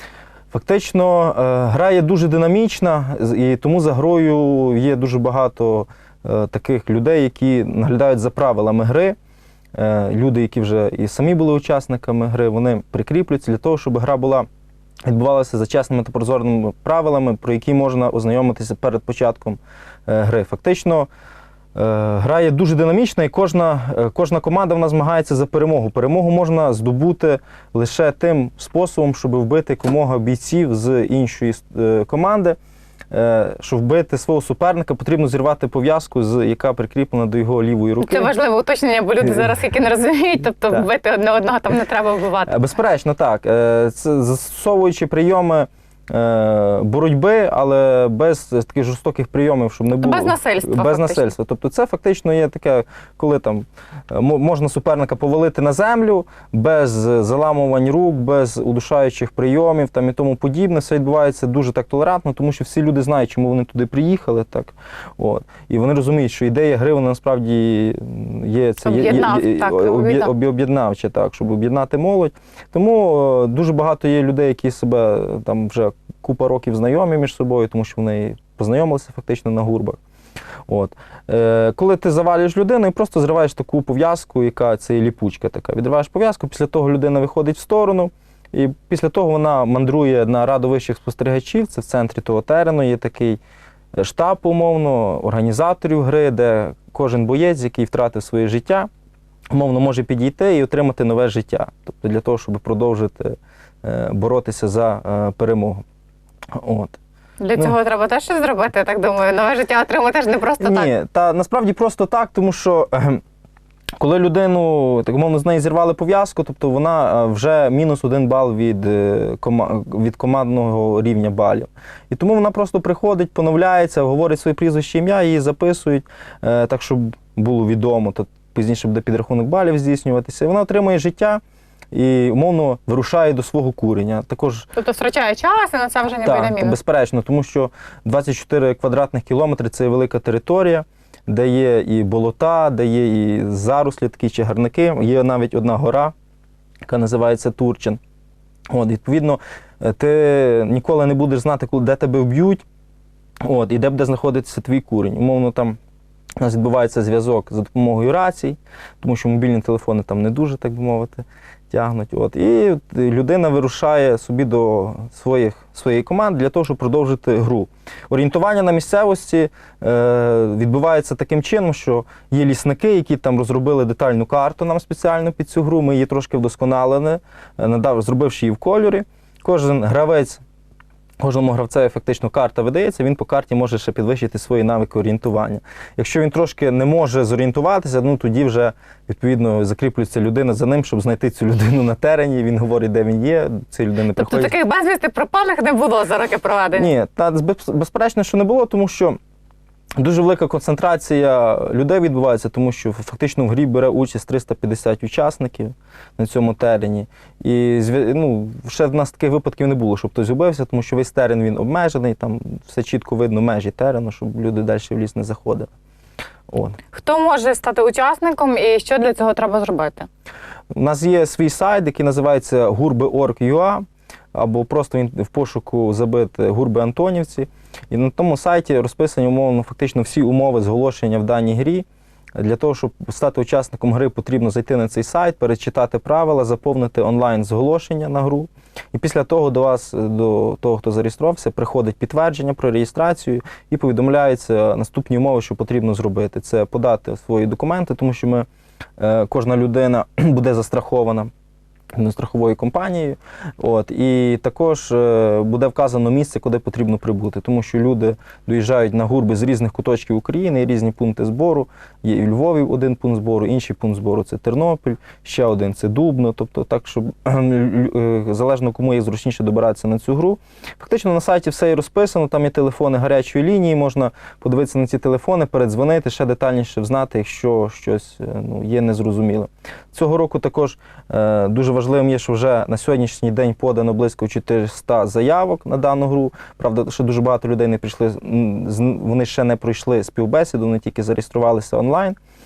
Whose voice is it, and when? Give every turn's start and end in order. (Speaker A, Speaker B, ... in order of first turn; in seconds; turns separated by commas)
Speaker A: 0.5-9.2, Speaker A: 9.8-14.5, Speaker A: 15.1-21.1, Speaker A: 21.8-32.6, Speaker A: 33.1-38.3, Speaker B: 38.0-42.5, Speaker A: 39.2-39.5, Speaker A: 42.5-80.0, Speaker B: 50.0-51.3, Speaker B: 68.8-70.3, Speaker A: 80.7-93.4, Speaker A: 94.0-98.9, Speaker A: 99.5-105.8, Speaker A: 106.5-107.0, Speaker B: 107.4-110.9, Speaker A: 110.6-113.2, Speaker A: 114.0-131.4, Speaker A: 131.9-134.7, Speaker B: 134.8-136.8, Speaker A: 136.2-146.1, Speaker A: 146.9-148.0, Speaker A: 148.7-152.6, Speaker A: 153.4-155.8, Speaker A: 156.4-180.4, Speaker A: 181.2-194.6, Speaker B: 194.1-196.9, Speaker A: 196.7-199.2, Speaker A: 200.0-215.7, Speaker A: 216.5-216.8, Speaker B: 216.9-220.1, Speaker A: 220.7-248.5, Speaker A: 249.0-251.3, Speaker A: 251.9-292.2